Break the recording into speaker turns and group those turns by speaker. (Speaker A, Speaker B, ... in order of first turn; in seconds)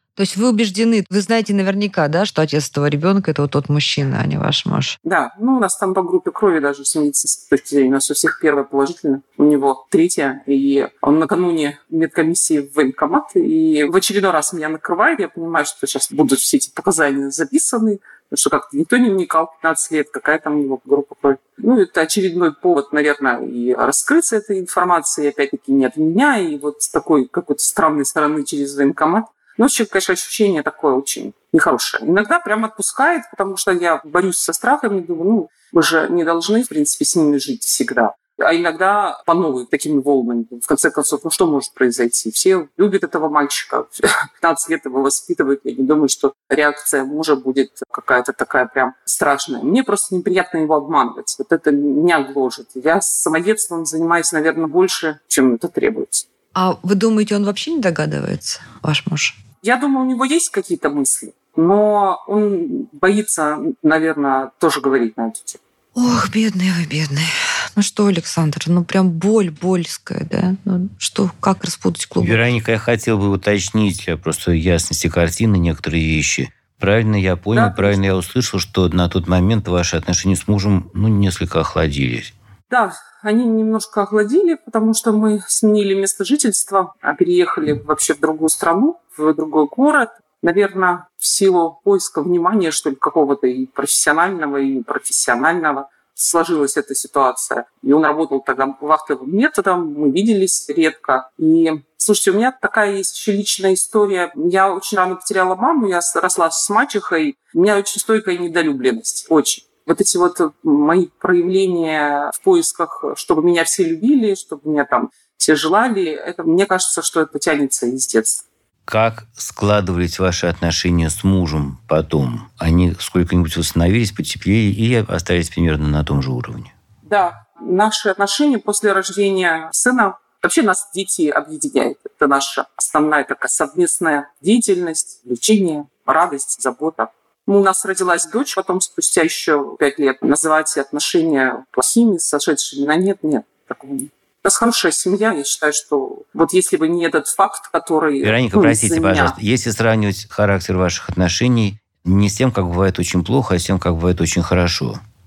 Speaker A: 0.2-5.0, 56.5-59.4, 66.0-72.4
Speaker B: 5.0-56.2, 59.6-65.6, 77.5-78.0, 82.7-118.4, 127.0-149.3
Speaker C: 72.2-82.3, 118.9-126.7, 148.2-155.0